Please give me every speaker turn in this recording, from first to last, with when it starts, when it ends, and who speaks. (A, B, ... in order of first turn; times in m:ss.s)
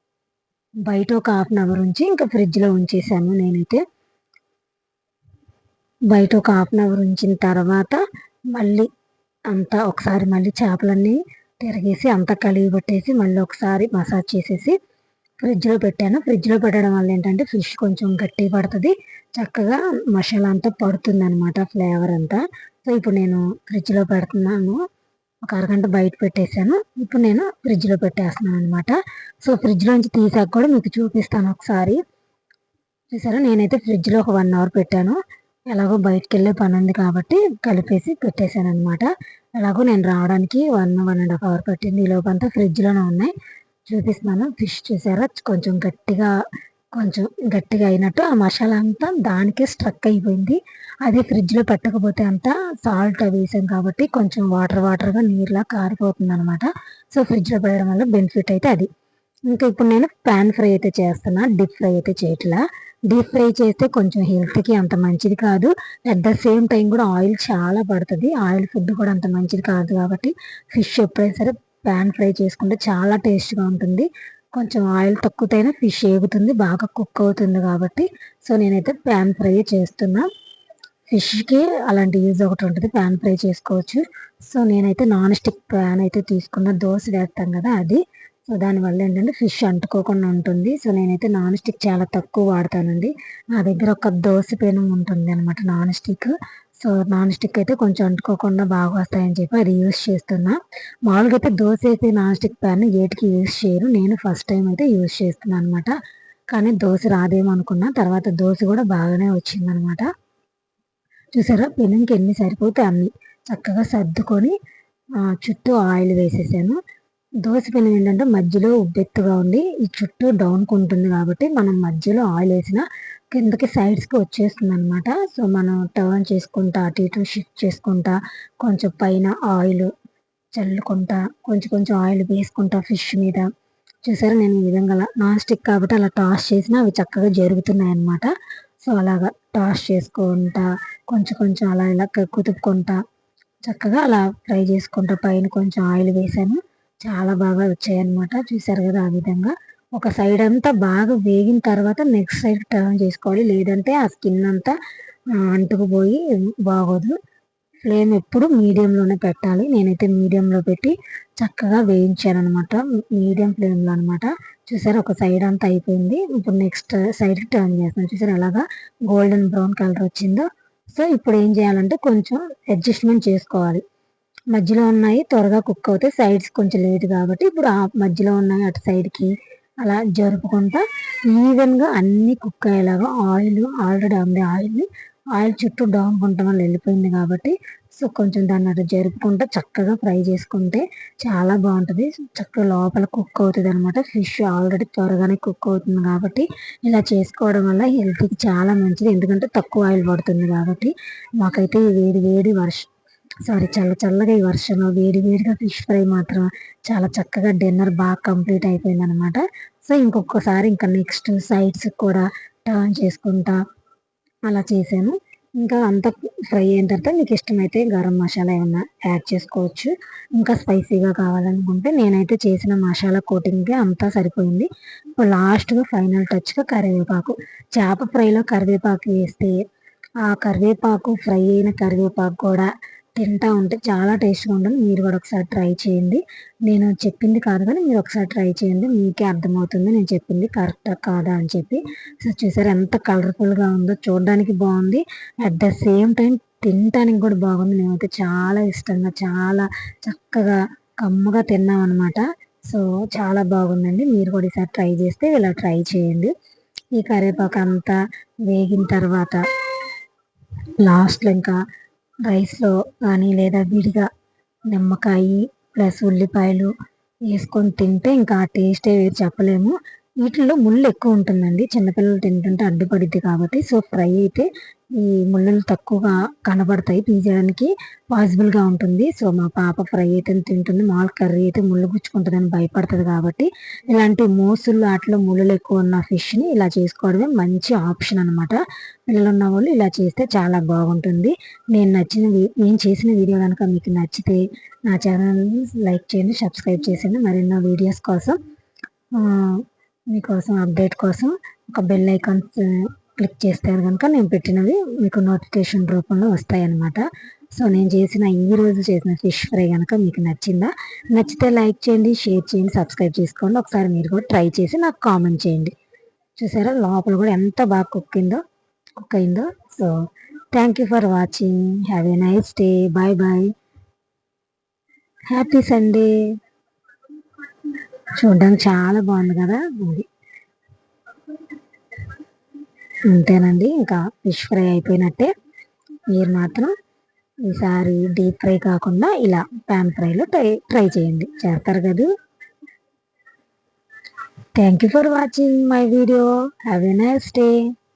0:00.9-0:03.8 A
0:06.1-0:08.0 A
0:08.5-0:08.9 A
0:09.5-0:14.8 A
0:15.4-0:24.8 A
0:25.5-0:32.0 A
0:33.1-0:35.2 A
0:35.7-0:43.3 A
0:43.9-0:46.3 A
0:47.0-0:58.9 A
0:59.5-1:20.3 A
1:21.1-1:45.9 A
1:46.5-1:50.1 A
1:51.3-1:54.6 A
1:55.2-1:56.8 A
1:57.4-2:09.9 A
2:10.6-2:13.5 A
2:14.0-2:18.3 A
2:18.8-2:23.0 A
2:23.7-2:34.8 A
2:35.4-2:37.2 A
2:37.8-2:53.8 A
2:54.5-2:59.3 A
2:59.8-3:22.9 A
3:23.5-3:33.6 A
3:34.5-3:49.6 A
3:50.2-4:16.3 A
4:17.0-4:18.0 A
4:18.5-4:19.4 A
4:20.8-4:21.6 A
4:22.3-4:24.1 A
4:24.7-4:26.7 A
4:27.3-4:58.4 A
4:59.2-5:07.0 A
5:07.6-5:15.7 A
5:16.4-5:18.4 A
5:19.0-5:20.0 A
5:20.5-5:23.5 A
5:25.3-5:26.1 A
5:28.2-5:30.1 A
5:33.1-5:35.3 A
5:36.1-5:36.7 A
5:37.5-5:42.1 A
5:44.6-5:47.7 A